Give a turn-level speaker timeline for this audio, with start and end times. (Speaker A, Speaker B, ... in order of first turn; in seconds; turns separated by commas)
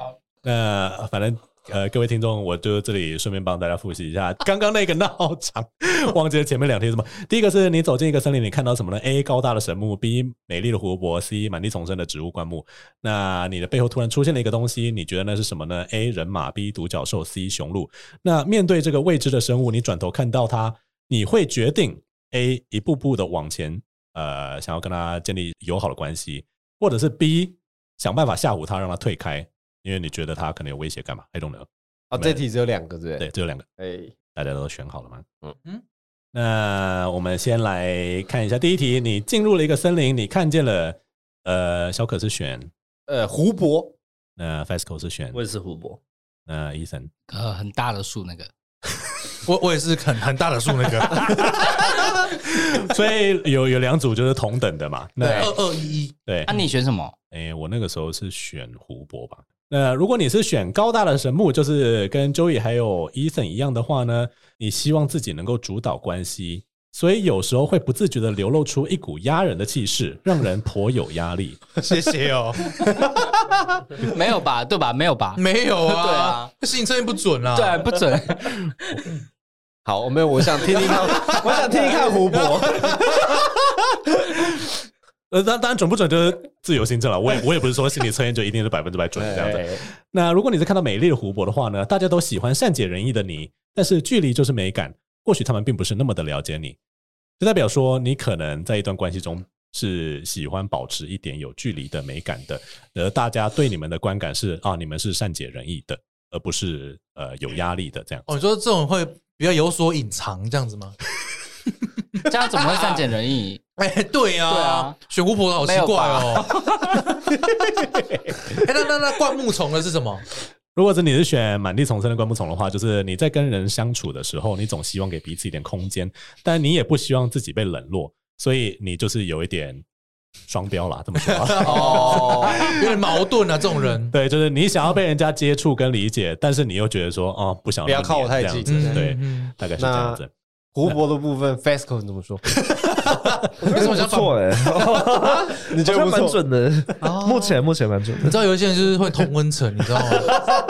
Speaker A: 0.4-32.4, Speaker B: 32.1-33.3, Speaker A: 33.2-33.7, Speaker B: 33.8-34.1, Speaker A: 34.3-35.2, Speaker A: 36.3-42.7, Speaker B: 43.1-43.9, Speaker A: 44.4-45.4, Speaker C: 45.3-46.0, Speaker A: 46.5-47.1, Speaker D: 47.3-48.5, Speaker E: 49.5-51.7, Speaker A: 51.0-55.5, Speaker B: 55.2-55.5, Speaker E: 55.3-56.6, Speaker A: 56.3-56.5, Speaker D: 56.5-57.1, Speaker A: 57.3-71.8, Speaker E: 71.8-73.1, Speaker D: 74.0-76.5, Speaker E: 75.4-77.8, Speaker D: 77.5-79.1, Speaker B: 79.9-83.4, Speaker E: 82.3-83.1, Speaker A: 85.3-96.8, Speaker B: 89.2-89.8, Speaker A: 97.4-108.3, Speaker E: 108.3-111.0, Speaker D: 112.3-113.6, Speaker E: 112.6-113.0, Speaker E: 113.8-117.1, Speaker D: 114.5-115.0, Speaker D: 115.6-117.1, Speaker E: 118.5-120.2, Speaker A: 120.8-129.8, Speaker A: 130.5-133.1, Speaker E: 131.2-134.2, Speaker B: 131.6-132.7, Speaker A: 134.1-140.3, Speaker B: 137.8-139.1, Speaker E: 138.7-139.5, Speaker B: 139.8-140.2, Speaker B: 140.8-142.6, Speaker E: 143.0-144.4, Speaker C: 143.6-148.5, Speaker B: 144.9-146.4, Speaker E: 147.0-147.6, Speaker E: 148.2-150.4